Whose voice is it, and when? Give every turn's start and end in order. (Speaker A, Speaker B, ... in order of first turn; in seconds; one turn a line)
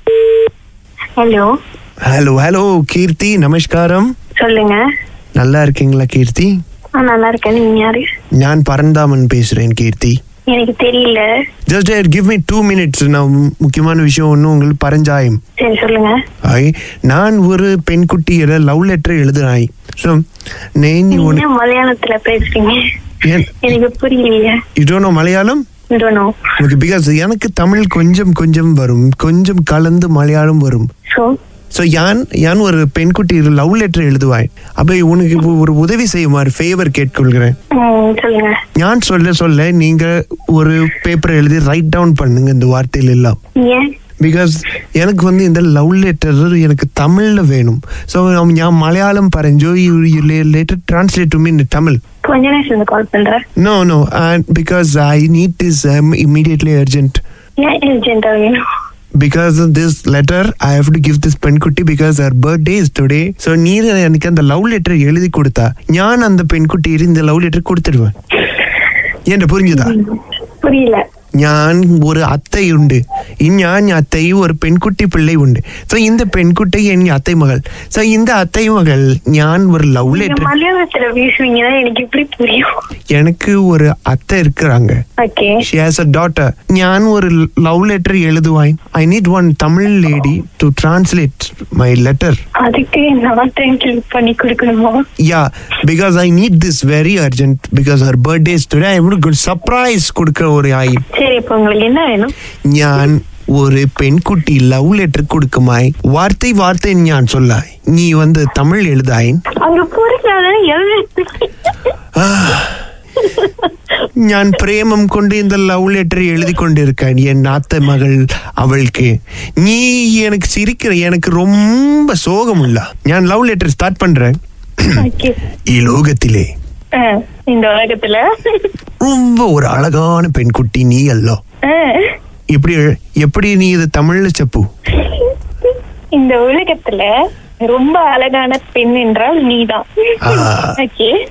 Speaker A: 1.2-1.5
Speaker B: 2.0-4.1
Speaker A: 4.4-4.8
Speaker B: 5.4-6.5
Speaker A: 7.0-8.1
Speaker B: 8.4-10.2
Speaker A: 10.5-11.2
Speaker B: 11.7-15.4
Speaker A: 15.6-16.2
Speaker B: 16.4-20.2
Speaker B: 20.8-21.5
Speaker A: 21.1-22.8
Speaker B: 23.2-23.7
Speaker A: 23.6-24.6
Speaker B: 24.8-25.6
Speaker A: 25.9-26.4
Speaker B: 26.6-30.9
Speaker B: 31.7-37.6
Speaker A: 37.8-38.6
Speaker B: 38.8-43.4
Speaker A: 43.6-43.9
Speaker B: 44.2-52.0
Speaker A: 52.2-53.4
Speaker B: 53.6-57.2
Speaker A: 57.6-58.6
Speaker B: 59.2-68.1
Speaker B: 69.3-70.0
Speaker A: 69.7-71.0
Speaker B: 71.4-80.5
Speaker A: 80.1-82.7
Speaker B: 83.1-85.0
Speaker A: 85.2-85.6
Speaker B: 85.6-92.4
Speaker A: 92.6-95.0
Speaker B: 95.2-101.0
Speaker A: 101.1-102.3
Speaker B: 102.7-109.4
Speaker A: 109.6-111.7
Speaker B: 112.2-112.8
Speaker A: 113.2-113.7
Speaker B: 114.2-125.0
Speaker A: 125.0-125.4
Speaker B: 125.7-126.5
Speaker A: 127.0-128.7
Speaker B: 129.0-131.4
Speaker A: 131.7-132.2
Speaker B: 132.5-134.7
Speaker A: 135.0-135.3
Speaker A: 136.2-137.1
Speaker A: 137.7-141.1
Speaker B: 140.2-140.8